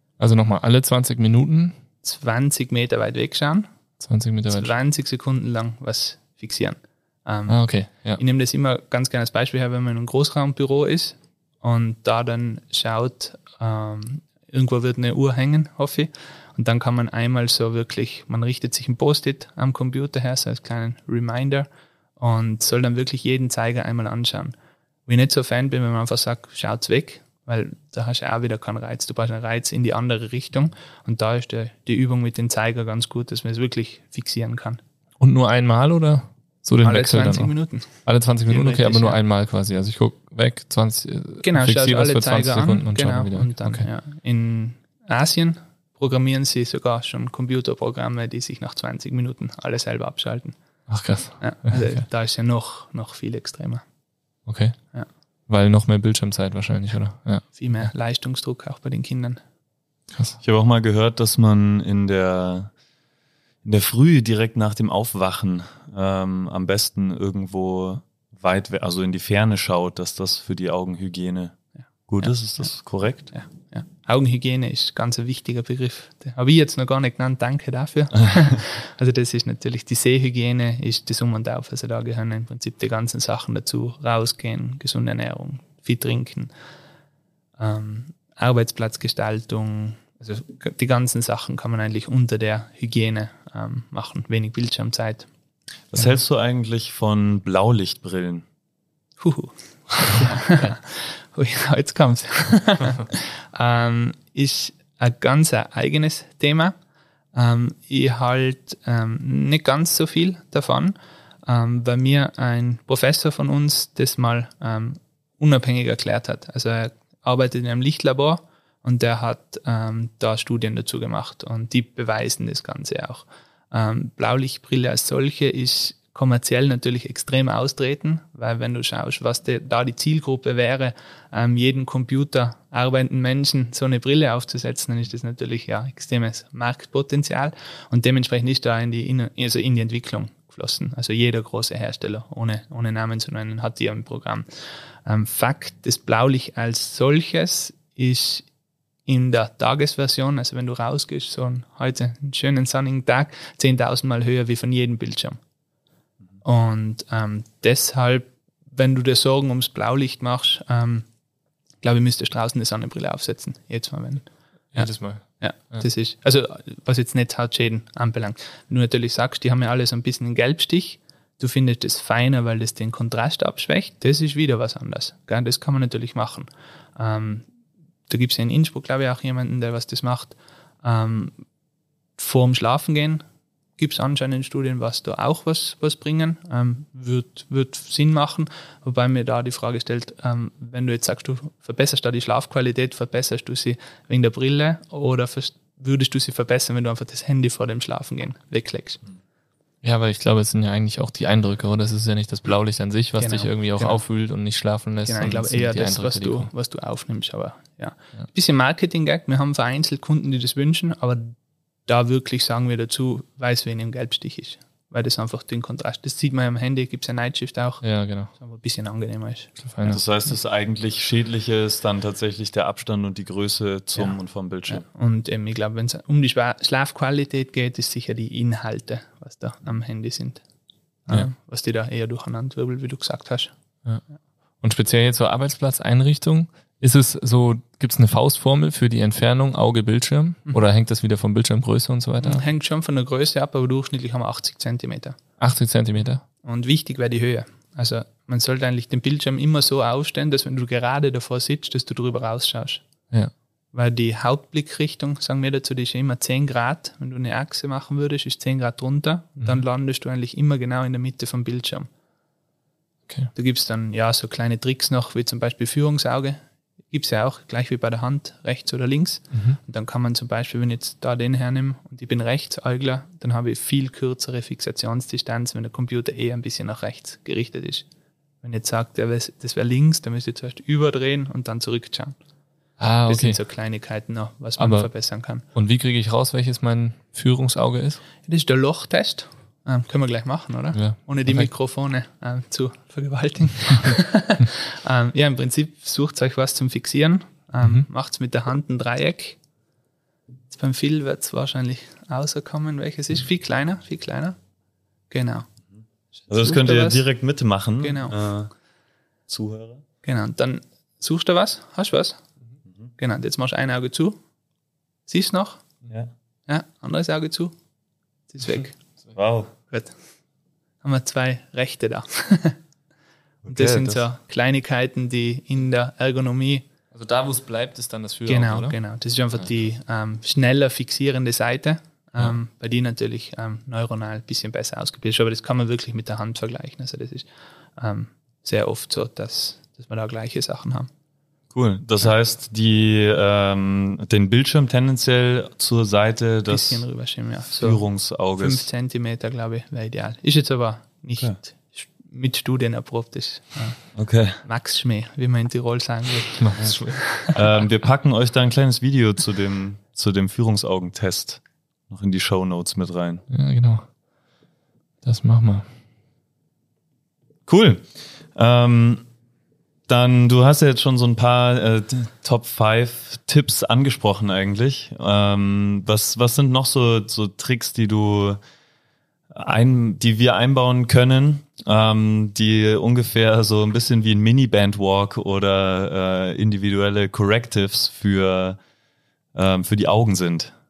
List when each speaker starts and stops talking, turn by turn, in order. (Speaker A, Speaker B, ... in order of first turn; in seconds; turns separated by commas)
Speaker A: 0.2-1.8, Speaker B: 2.0-3.7, Speaker A: 4.0-4.7, Speaker B: 4.5-7.6, Speaker A: 7.5-8.2, Speaker B: 8.2-21.7, Speaker B: 22.2-24.5, Speaker B: 25.1-34.8, Speaker A: 35.2-43.9, Speaker B: 36.8-39.2, Speaker B: 41.4-50.6, Speaker A: 50.9-52.0, Speaker B: 51.4-53.8, Speaker A: 54.5-54.8, Speaker A: 55.5-57.9, Speaker B: 57.6-59.4, Speaker A: 60.1-60.4, Speaker C: 60.4-62.7, Speaker C: 63.6-73.3, Speaker B: 72.2-86.5, Speaker B: 87.6-95.3, Speaker C: 95.9-98.5, Speaker B: 99.2-106.7, Speaker B: 107.3-111.0, Speaker B: 111.5-144.5, Speaker B: 145.1-148.5, Speaker B: 149.1-155.4, Speaker B: 156.4-161.1, Speaker B: 161.8-177.5, Speaker A: 164.7-165.9, Speaker B: 178.1-181.3, Speaker B: 182.2-183.2, Speaker B: 183.8-199.0, Speaker A: 199.8-206.5, Speaker B: 203.2-204.0, Speaker B: 205.1-219.9, Speaker A: 217.8-218.3, Speaker A: 219.6-220.0, Speaker C: 219.8-224.8, Speaker B: 224.0-230.4, Speaker B: 231.1-233.5, Speaker A: 234.6-242.5, Speaker B: 242.2-245.2, Speaker A: 245.4-246.2, Speaker B: 246.4-252.8, Speaker B: 253.7-261.9, Speaker B: 263.4-277.9, Speaker A: 269.3-269.6, Speaker B: 278.4-282.2, Speaker A: 282.8-283.4, Speaker B: 283.1-285.4, Speaker A: 284.6-284.9, Speaker A: 285.5-288.0, Speaker B: 288.3-299.4, Speaker A: 290.7-291.5, Speaker B: 300.5-304.4, Speaker B: 305.1-305.5, Speaker B: 306.2-307.0, Speaker C: 306.3-308.5, Speaker B: 307.8-308.2, Speaker C: 309.3-309.8, Speaker B: 310.0-312.2, Speaker B: 313.0-314.2, Speaker B: 315.1-315.6, Speaker C: 315.9-316.1, Speaker B: 316.5-317.6, Speaker B: 318.3-318.8, Speaker C: 319.1-319.5, Speaker B: 319.7-320.0, Speaker B: 320.8-322.6, Speaker C: 323.4-324.1, Speaker B: 323.5-326.7, Speaker A: 326.9-328.8, Speaker B: 328.3-337.3, Speaker B: 337.8-340.9, Speaker C: 341.5-346.8, Speaker B: 346.5-357.3, Speaker C: 347.5-348.7, Speaker C: 353.9-354.4, Speaker A: 356.4-357.0, Speaker C: 357.3-363.2, Speaker A: 363.3-363.9, Speaker A: 365.0-365.7, Speaker C: 367.5-369.1, Speaker C: 369.9-378.4, Speaker C: 379.3-388.6, Speaker C: 389.3-390.5